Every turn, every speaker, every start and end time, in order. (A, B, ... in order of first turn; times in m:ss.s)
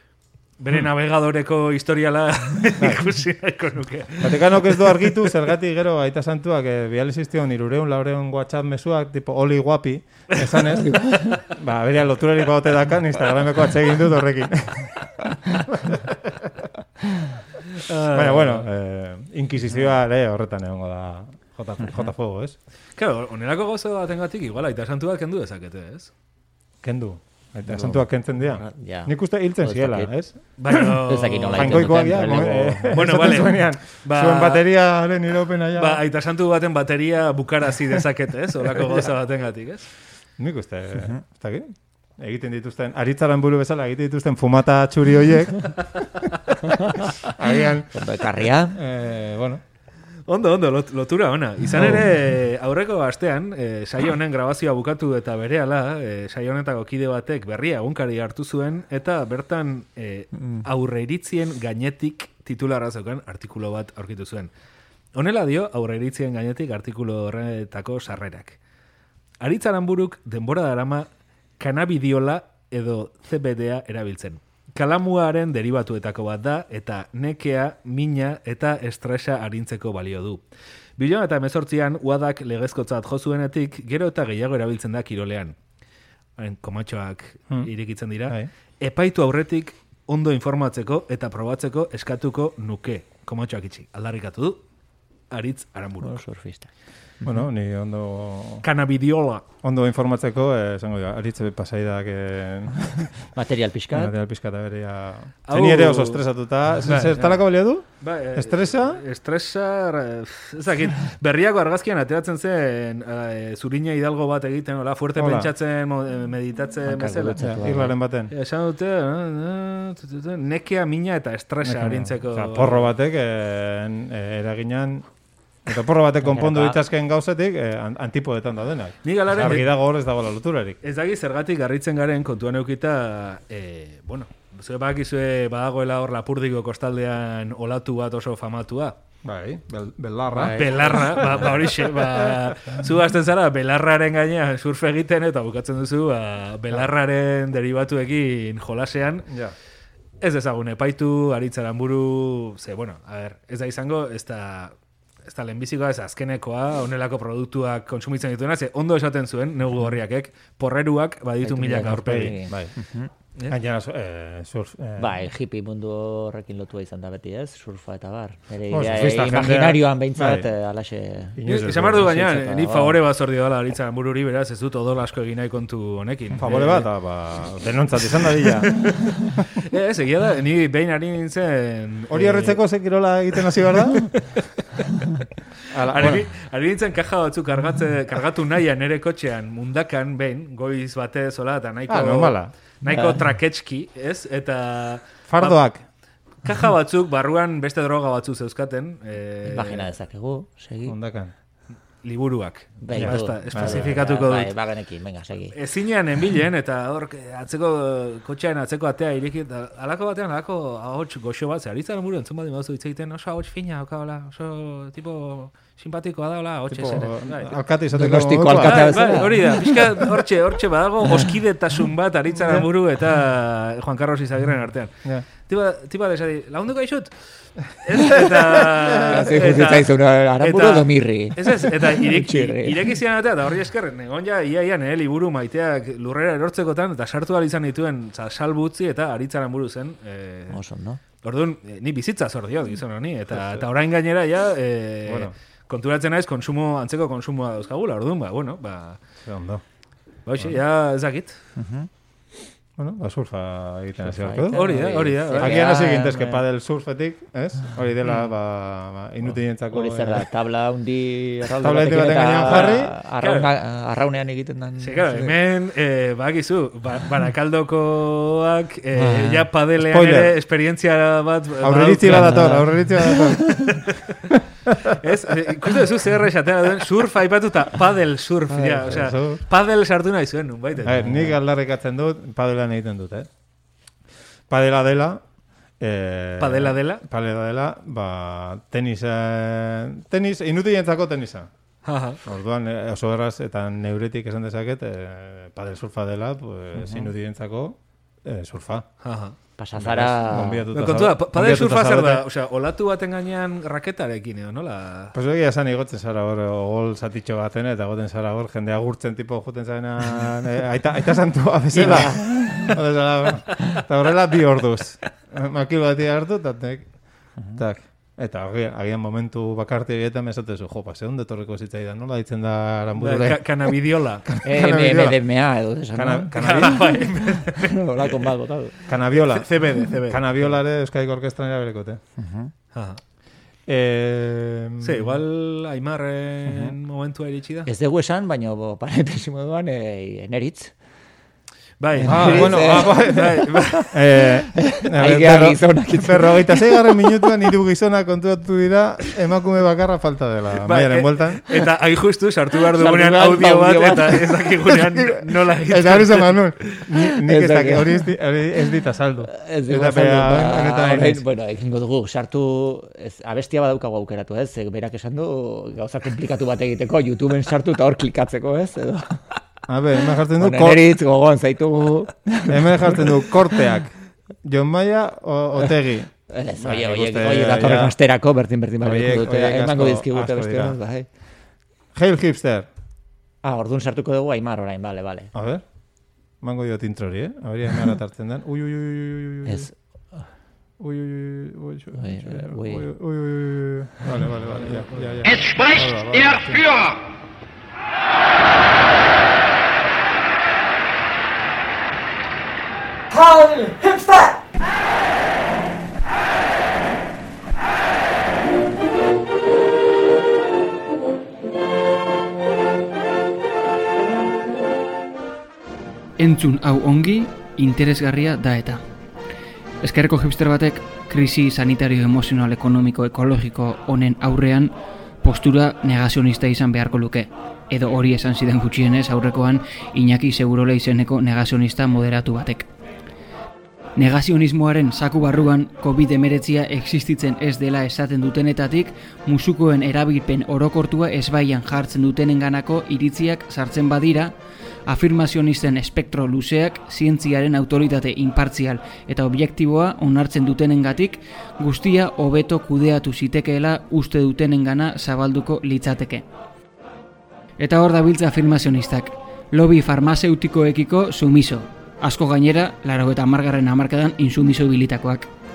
0:00.6-0:05.2 A
0:02.8-0:03.0 B
0:04.2-0:16.5 B
0:10.9-0:11.3 C
0:11.1-0:11.4 A
0:17.8-0:18.7 A
0:18.1-0:22.6 B
0:21.8-0:22.1 C
0:23.0-0:26.1 A
0:26.8-0:36.0 B
0:27.7-0:30.1 C
0:30.6-0:34.6 A
0:31.1-0:33.0 C
0:35.8-0:39.9 A
0:40.4-0:49.6 B
0:47.9-0:48.8 C
0:50.3-1:04.5 A
0:51.7-0:52.1 B
1:05.1-1:08.6 A
1:09.4-1:11.1 A
1:11.6-1:20.4 A
1:21.0-1:25.6 A
1:26.4-1:34.6 A
1:35.3-1:36.2 A
1:36.0-1:36.7 C
1:37.2-1:38.6 B
1:38.6-1:39.4 A
1:39.6-1:43.3 B
1:43.4-1:44.1 C
1:43.9-1:49.0 B
1:45.5-1:46.2 A
1:46.8-1:47.4 A
1:48.0-1:57.4 A
1:55.1-1:55.5 B
1:56.9-1:57.9 C
1:57.4-1:58.3 B
1:58.3-2:02.9 A
2:01.6-2:05.1 B
2:05.6-2:10.8 B
2:06.2-2:06.8 C
2:09.0-2:09.7 A
2:10.8-2:19.0 A
2:19.2-2:22.8 B
2:20.3-2:21.4 C
2:20.6-2:29.3 A
2:29.3-2:29.6 B
2:30.2-2:34.7 A
2:35.3-2:42.4 A
2:41.4-2:43.1 C
2:42.0-2:42.8 B
2:43.5-2:45.2 B
2:45.0-2:53.0 C
2:48.7-2:50.5 B
2:51.4-2:52.1 B
2:51.5-2:56.9 A
2:56.4-2:59.0 B
2:59.7-3:02.6 A
3:02.1-3:04.1 B
3:05.7-3:06.3 B
3:05.9-3:15.6 A
3:11.9-3:12.5 B
3:12.9-3:13.2 C
3:15.3-3:15.8 B
3:16.4-3:19.9 A
3:19.4-3:21.0 C
3:20.9-3:21.3 B
3:22.0-3:24.5 A
3:22.8-3:25.6 C
3:22.9-3:24.0 B
3:25.6-3:37.6 A
3:36.7-3:39.5 B
3:38.0-3:39.9 C
3:38.6-3:44.9 A
3:42.4-3:42.7 B
3:45.5-3:47.1 A
3:47.7-4:00.6 A
3:48.1-3:49.3 B
3:49.0-3:52.9 C
4:00.5-4:01.0 C
4:01.2-4:09.0 A
4:03.3-4:03.6 B
4:05.1-4:05.3 B
4:09.2-4:09.6 B
4:10.3-4:11.4 A
4:11.6-4:11.9 C
4:12.8-4:14.6 B
4:14.0-4:16.4 C
4:14.5-4:15.7 A
4:15.3-4:20.2 B
4:19.7-4:25.3 C
4:21.6-4:22.9 B
4:22.4-4:23.5 A
4:24.8-4:32.5 A
4:29.0-4:29.5 C
4:29.8-4:30.4 B
4:31.6-4:33.8 B
4:32.1-4:33.6 C
4:33.6-4:34.2 A
4:34.3-4:35.0 B
4:34.9-4:41.1 A
4:38.6-4:39.4 B
4:40.8-4:43.3 B
4:41.0-4:41.3 C
4:44.5-4:45.2 B
4:45.8-4:51.5 B
4:46.4-4:47.0 A
4:51.8-4:52.2 A
4:52.2-4:58.9 B
4:56.8-4:57.1 C
4:59.0-4:59.4 A
4:59.6-5:00.6 C
4:59.8-5:02.2 B
5:00.7-5:05.1 A
5:05.1-5:16.9 B
5:11.7-5:12.8 C
5:17.5-5:25.2 B
5:23.0-5:24.3 A
5:24.4-5:28.8 C
5:25.9-5:27.1 B
5:26.4-5:28.2 A
5:28.9-5:32.0 B
5:29.1-5:30.5 A
5:32.2-5:32.5 C
5:32.7-5:33.0 A
5:33.7-5:35.1 B
5:34.8-5:37.7 A
5:36.5-5:36.7 C
5:37.7-5:40.7 C
5:41.8-5:43.9 A
5:42.0-5:43.9 C
5:42.0-5:51.5 B
5:44.6-5:46.9 C
5:50.6-5:56.8 A
5:52.8-5:54.4 C
5:54.8-6:01.2 B
5:57.2-5:58.0 C
5:59.3-6:09.3 C
6:09.7-6:10.9 B
6:10.4-6:13.2 C
6:12.5-6:17.9 B
6:16.3-6:21.1 C
6:18.8-6:20.8 B
6:22.0-6:22.7 B
6:23.4-6:25.3 C
6:25.3-6:25.6 B
6:26.4-6:29.7 B
6:29.5-6:30.2 C
6:30.8-6:36.9 B
6:32.0-6:32.9 C
6:56.2-6:58.8 D
6:59.8-7:12.7 D
7:14.0-7:24.3 D
7:24.9-7:36.2 D
7:37.6-7:45.3 D